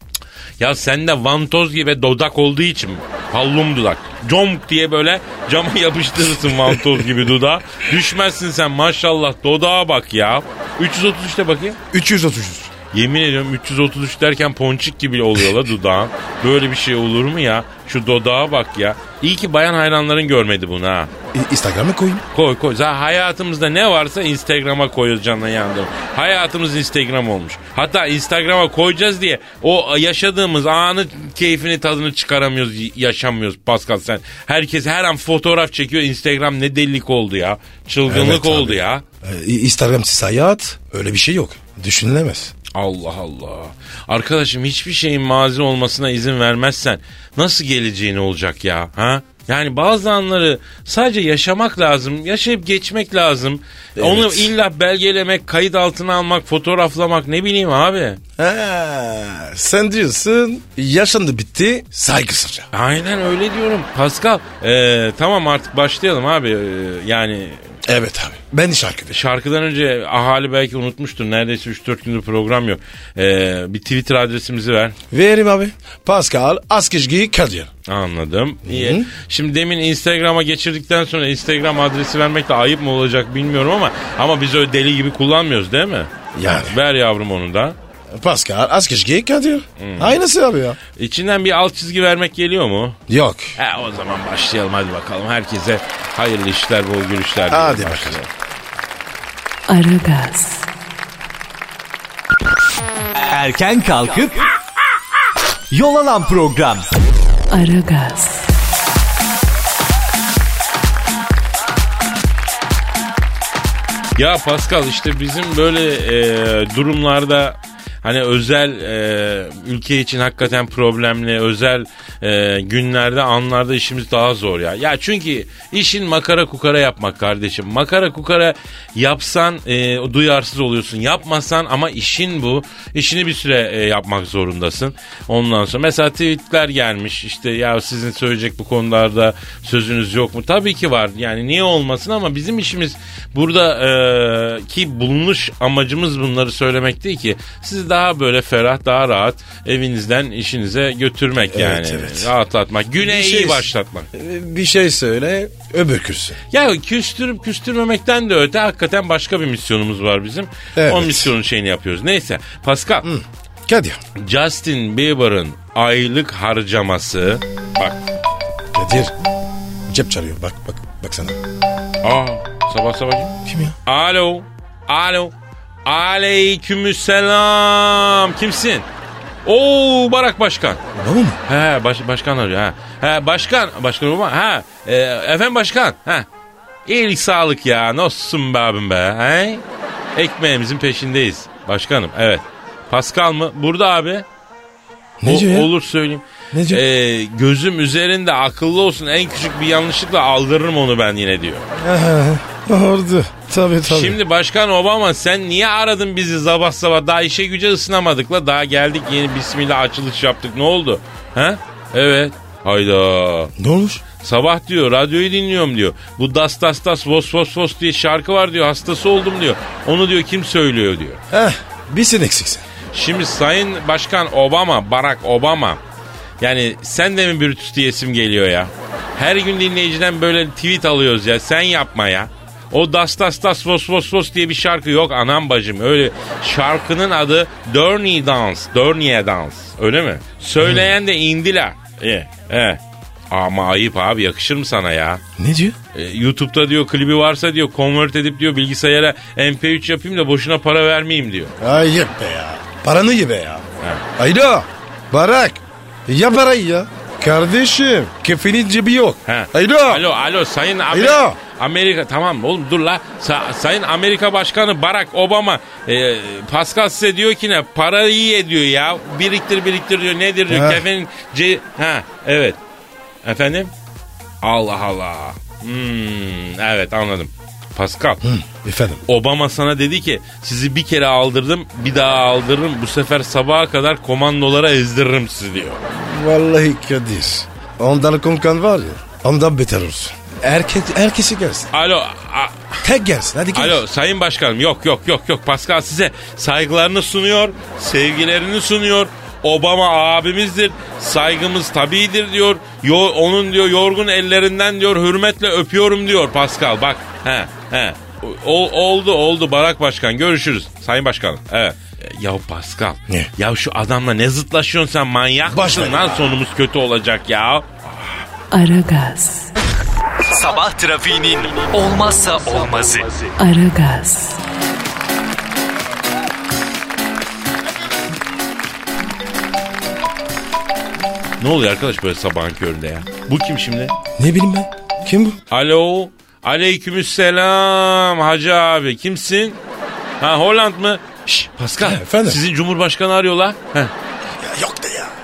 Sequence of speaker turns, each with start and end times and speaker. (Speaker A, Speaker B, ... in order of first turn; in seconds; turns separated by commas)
Speaker A: 0.6-11.8, Speaker B: 11.9-12.7, Speaker A: 12.9-21.1, Speaker B: 21.3-22.2, Speaker A: 22.3-39.0, Speaker B: 38.1-42.5, Speaker A: 42.7-58.2, Speaker B: 54.0-54.5, Speaker B: 58.4-62.7, Speaker A: 62.7-67.7, Speaker B: 67.8-69.2, Speaker A: 69.1-75.0, Speaker B: 75.1-77.7, Speaker A: 77.9-87.8, Speaker B: 78.6-79.1, Speaker B: 86.3-86.8, Speaker B: 88.1-90.8, Speaker A: 89.8-90.2, Speaker A: 91.0-93.0, Speaker B: 93.1-93.5, Speaker A: 93.5-98.3, Speaker B: 97.5-98.2, Speaker C: 99.7-100.7, Speaker D: 103.3-104.5, Speaker D: 105.7-106.9, Speaker C: 107.5-108.5, Speaker A: 114.2-154.1, Speaker B: 151.5-152.3, Speaker B: 153.0-156.4, Speaker A: 156.5-163.1, Speaker B: 160.7-161.3, Speaker B: 163.0-164.0, Speaker A: 164.2-168.0, Speaker B: 168.7-169.1, Speaker B: 169.9-171.4, Speaker A: 172.0-173.3, Speaker B: 173.4-173.8, Speaker A: 173.8-175.3, Speaker A: 175.8-178.8, Speaker A: 179.4-180.8, Speaker B: 180.9-181.4, Speaker A: 181.4-186.3, Speaker A: 186.8-189.6, Speaker A: 190.1-194.2, Speaker B: 195.2-195.7, Speaker A: 195.2-201.7, Speaker B: 196.5-196.8, Speaker B: 201.8-204.2, Speaker A: 203.8-213.5, Speaker B: 213.6-214.0, Speaker A: 214.2-221.2, Speaker B: 221.3-222.6, Speaker A: 222.9-225.8, Speaker A: 226.4-245.2, Speaker B: 240.6-240.9, Speaker B: 245.4-245.8, Speaker A: 245.9-251.5, Speaker B: 251.6-260.0, Speaker A: 259.2-272.6, Speaker B: 260.9-261.4, Speaker B: 270.5-270.8, Speaker A: 273.2-273.7, Speaker A: 274.4-278.2, Speaker B: 278.2-279.0, Speaker A: 279.1-285.9, Speaker B: 285.9-291.7, Speaker A: 291.7-292.9, Speaker B: 292.8-293.8, Speaker A: 293.5-317.8, Speaker B: 315.5-316.3, Speaker C: 318.5-319.5, Speaker D: 320.2-323.3, Speaker C: 323.4-324.4, Speaker A: 331.4-333.9, Speaker B: 334.1-335.4, Speaker A: 335.5-339.6, Speaker A: 340.2-343.9, Speaker B: 341.8-342.4, Speaker B: 344.3-345.1